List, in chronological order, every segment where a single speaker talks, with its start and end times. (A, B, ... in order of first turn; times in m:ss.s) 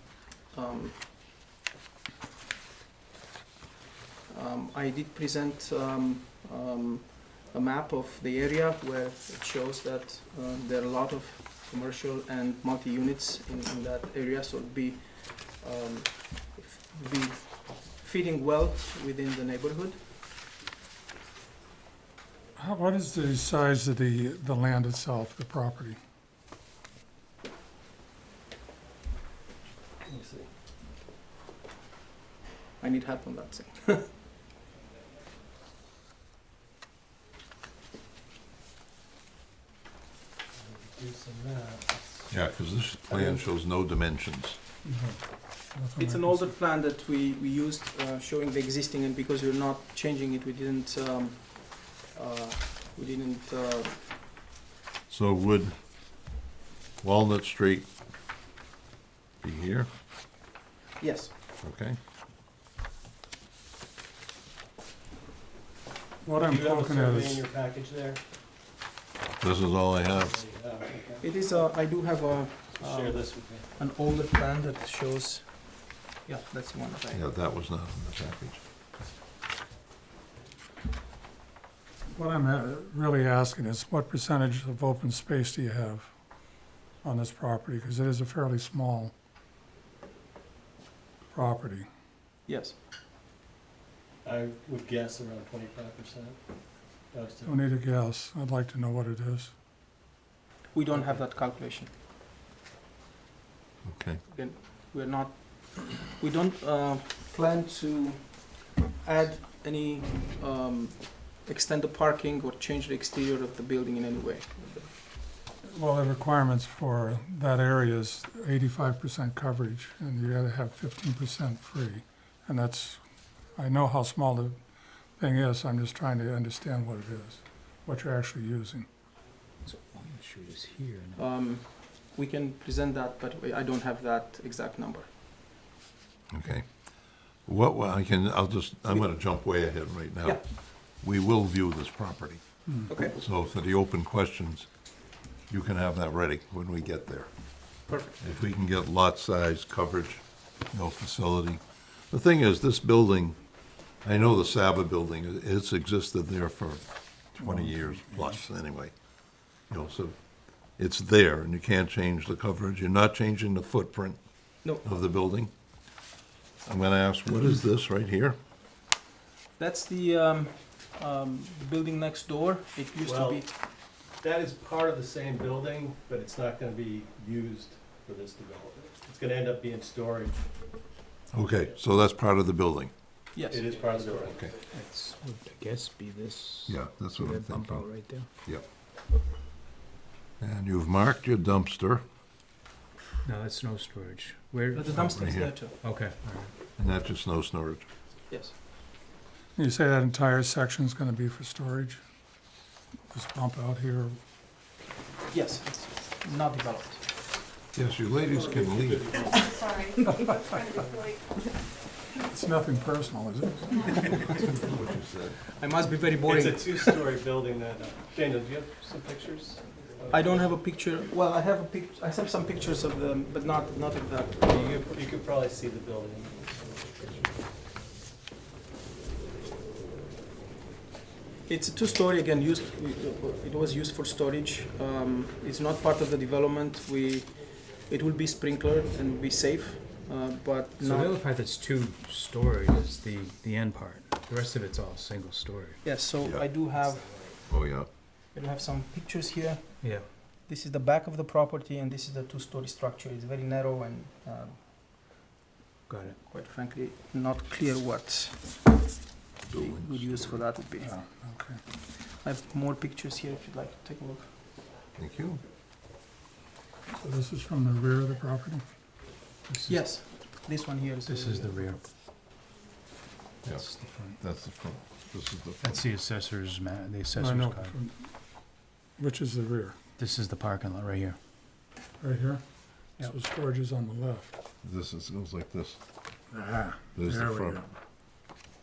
0:00.5-0:01.1 A
0:04.3-0:20.0 A
0:22.6-0:26.0 B
0:30.0-0:30.5 C
0:32.8-0:34.1 A
0:40.5-0:42.3 C
0:42.3-0:44.6 D
0:43.1-0:43.4 A
0:44.8-0:46.6 B
0:46.0-0:54.0 A
0:55.1-0:55.7 D
0:57.0-0:57.9 D
0:59.4-0:59.9 D
1:01.0-1:01.3 A
1:01.6-1:02.0 D
1:06.2-1:07.4 B
1:06.4-1:08.2 C
1:09.4-1:10.3 D
1:10.2-1:11.3 C
1:11.2-1:17.3 A
1:12.7-1:13.7 C
1:17.1-1:18.6 D
1:22.1-1:26.1 B
1:27.0-1:29.1 B
1:31.3-1:31.8 B
1:32.5-1:32.8 A
1:34.2-1:36.4 C
1:37.1-1:37.5 C
1:37.4-1:39.5 B
1:40.7-1:41.9 A
1:43.8-1:44.2 D
1:44.2-1:54.9 A
1:55.6-2:04.6 B
2:05.1-2:08.9 B
2:09.6-2:11.2 E
2:11.2-2:15.1 A
2:16.3-2:24.7 D
2:22.9-2:23.2 A
2:25.5-2:38.9 D
2:27.9-2:28.2 A
2:37.4-2:38.4 B
2:39.7-2:45.5 D
2:46.6-2:48.4 D
2:49.6-2:53.5 A
2:53.0-2:53.5 C
2:54.2-3:00.4 C
3:01.3-3:02.9 D
3:03.3-3:03.7 A
3:03.5-3:04.5 C
3:04.2-3:04.5 D
3:04.7-3:08.3 E
3:06.7-3:08.6 D
3:10.4-3:12.0 D
3:13.2-3:16.5 E
3:14.7-3:15.8 A
3:14.9-3:15.5 D
3:16.8-3:17.9 D
3:18.3-3:18.6 A
3:19.6-3:22.0 B
3:23.1-3:24.2 B
3:25.3-3:27.1 A
3:27.7-3:29.2 D
3:28.3-3:29.9 C
3:29.3-3:31.5 F
3:30.0-3:30.3 B
3:32.2-3:34.3 B
3:34.4-3:35.4 D
3:35.5-3:37.2 A
3:36.2-3:40.5 C
3:40.1-3:44.9 A
3:44.4-3:47.3 C
3:51.5-4:01.1 A
4:00.8-4:05.9 E
4:05.8-4:07.4 A
4:06.2-4:06.5 D
4:06.7-4:07.4 E
4:07.5-4:07.9 D
4:08.3-4:14.6 A
4:09.8-4:10.1 E
4:15.9-4:16.2 E
4:16.2-4:18.8 A
4:19.5-4:20.4 D
4:19.5-4:20.9 A
4:20.8-4:21.6 B
4:21.9-4:24.4 A
4:25.0-4:25.4 D
4:26.9-4:28.6 B
4:29.5-4:29.8 B
4:29.7-4:31.6 A
4:31.0-4:31.8 E
4:33.4-4:35.8 D
4:33.6-4:34.2 E
4:35.6-4:37.8 E
4:37.1-4:38.1 B
4:39.0-4:39.8 B
4:40.0-4:41.2 E
4:42.0-4:42.4 B
4:43.0-4:44.3 B
4:44.6-4:45.8 D
4:46.3-4:47.6 B
4:46.9-4:47.6 D